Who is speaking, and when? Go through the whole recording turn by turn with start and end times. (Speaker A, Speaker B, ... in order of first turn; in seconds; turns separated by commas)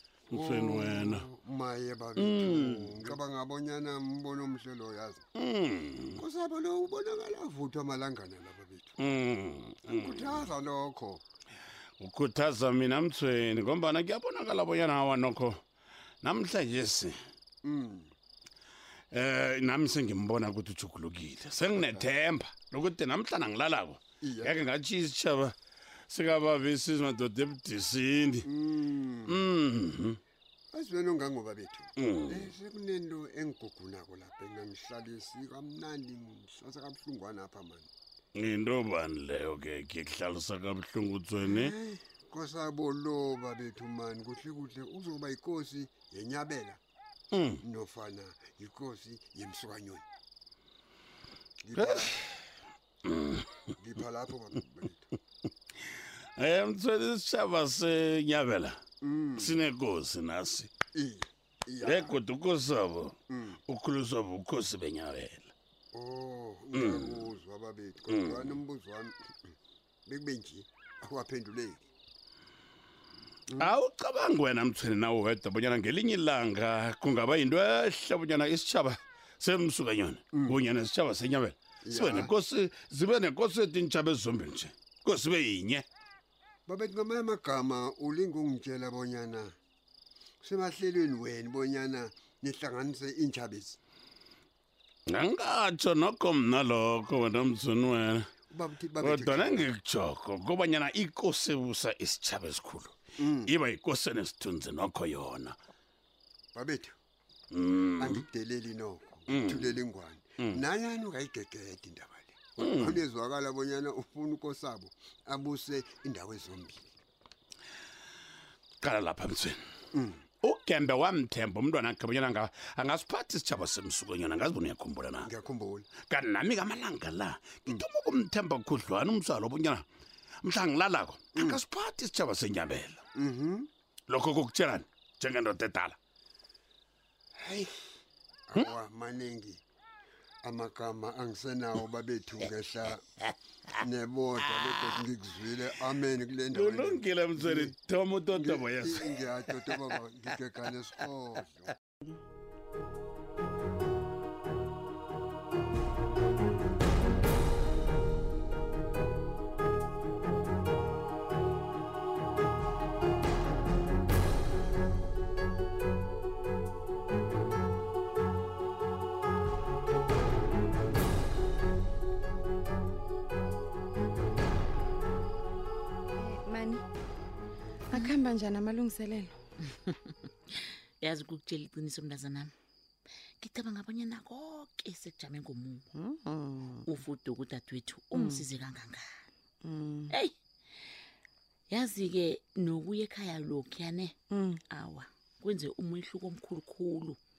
Speaker A: 0.3-1.2, Speaker B: 0.3-5.2, Speaker A: 2.1-3.2, Speaker A: 5.4-6.2, Speaker B: 6.2-8.9, Speaker A: 9.0-10.5, Speaker B: 9.9-11.2, Speaker A: 12.0-15.6, Speaker A: 16.2-17.1, Speaker B: 17.6-18.1, Speaker A: 19.1-25.5, Speaker B: 24.2-24.5, Speaker A: 26.1-28.5, Speaker B: 28.5-29.4, Speaker A: 29.3-30.2, Speaker B: 30.7-37.9, Speaker A: 32.0-32.5, Speaker A: 38.4-41.8, Speaker B: 41.5-46.8, Speaker A: 47.3-47.6, Speaker B: 47.6-50.0, Speaker B: 51.6-52.1, Speaker A: 51.8-52.2, Speaker A: 53.1-53.4, Speaker B: 53.8-55.0, Speaker A: 56.4-58.8, Speaker B: 59.0-59.6, Speaker A: 59.4-60.7, Speaker B: 60.9-62.1, Speaker A: 61.8-65.5, Speaker B: 65.9-69.1, Speaker A: 66.7-67.3, Speaker A: 68.1-68.6, Speaker B: 70.1-71.8, Speaker A: 73.6-85.9, Speaker B: 81.8-82.3, Speaker B: 86.7-89.5, Speaker B: 90.4-93.8, Speaker A: 95.1-98.3, Speaker B: 98.5-99.6, Speaker A: 99.0-105.5, Speaker B: 103.2-103.5, Speaker B: 106.5-106.9, Speaker A: 107.5-108.3, Speaker B: 108.0-116.9, Speaker A: 109.3-109.8, Speaker A: 112.6-113.0, Speaker A: 118.8-119.6, Speaker A: 120.4-125.3, Speaker B: 125.2-125.9, Speaker A: 126.0-129.8, Speaker A: 130.4-133.0, Speaker B: 133.2-133.7, Speaker A: 134.1-136.0, Speaker B: 137.4-137.7, Speaker B: 138.5-139.6, Speaker B: 140.4-143.0, Speaker B: 143.8-147.7, Speaker A: 144.5-145.0, Speaker A: 146.5-150.0, Speaker B: 148.3-151.5, Speaker C: 176.2-176.8, Speaker C: 178.0-179.3, Speaker D: 181.0-182.5, Speaker D: 183.4-185.9, Speaker C: 186.0-186.8, Speaker D: 186.8-189.1, Speaker C: 189.7-190.0, Speaker D: 191.7-194.1, Speaker D: 194.7-197.2